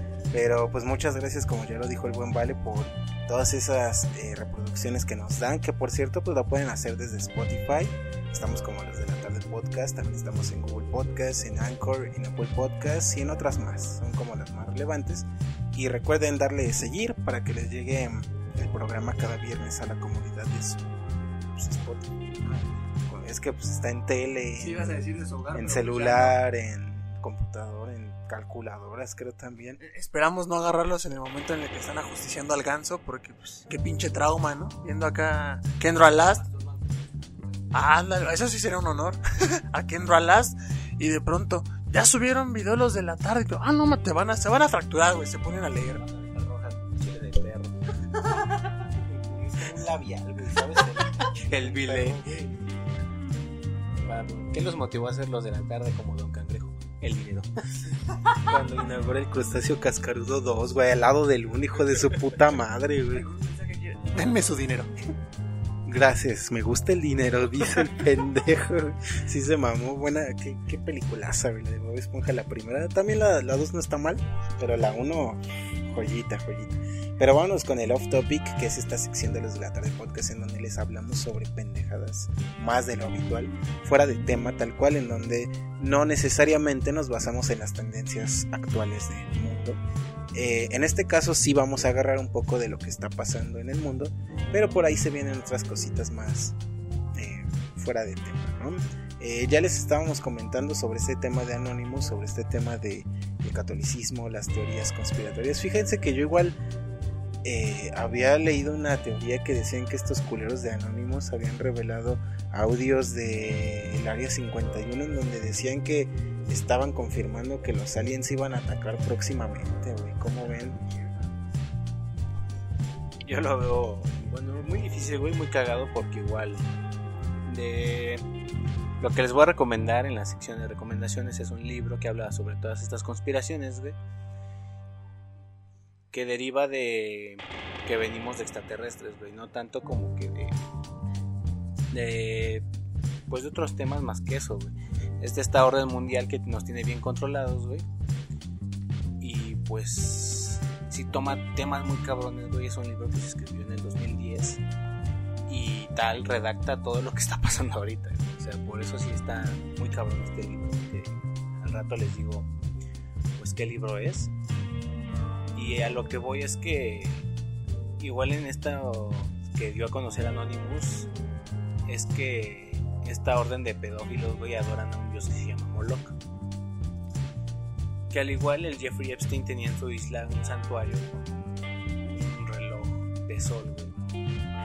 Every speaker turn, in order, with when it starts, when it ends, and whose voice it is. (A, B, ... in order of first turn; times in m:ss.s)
0:00.3-0:20.9 A
0:21.5-0:22.1 A
0:23.1-0:25.0 A
0:24.6-0:26.4 B
0:25.5-0:29.8 A
0:29.8-0:36.4 B
0:36.1-0:37.9 C
0:37.7-0:46.0 B
0:45.9-0:47.9 C
0:49.0-0:52.8 A
0:50.8-0:52.2 C
0:54.0-0:57.5 C
0:58.4-1:03.3 A
1:03.1-1:04.9 B
1:05.9-1:29.8 A
1:30.3-1:36.6 A
1:37.1-1:46.6 A
1:47.4-2:00.8 A
2:03.2-2:06.7 C
2:07.4-2:08.2 C
2:09.0-2:14.0 C
2:16.1-2:20.6 C
2:21.9-2:22.6 C
2:23.3-2:27.9 C
2:29.2-2:34.6 C
2:35.5-2:42.5 C
2:43.4-2:44.3 C
2:45.6-2:47.3 C
2:48.0-2:51.1 C
2:51.9-2:56.2 C
2:58.1-3:01.4 C
3:02.1-3:04.2 C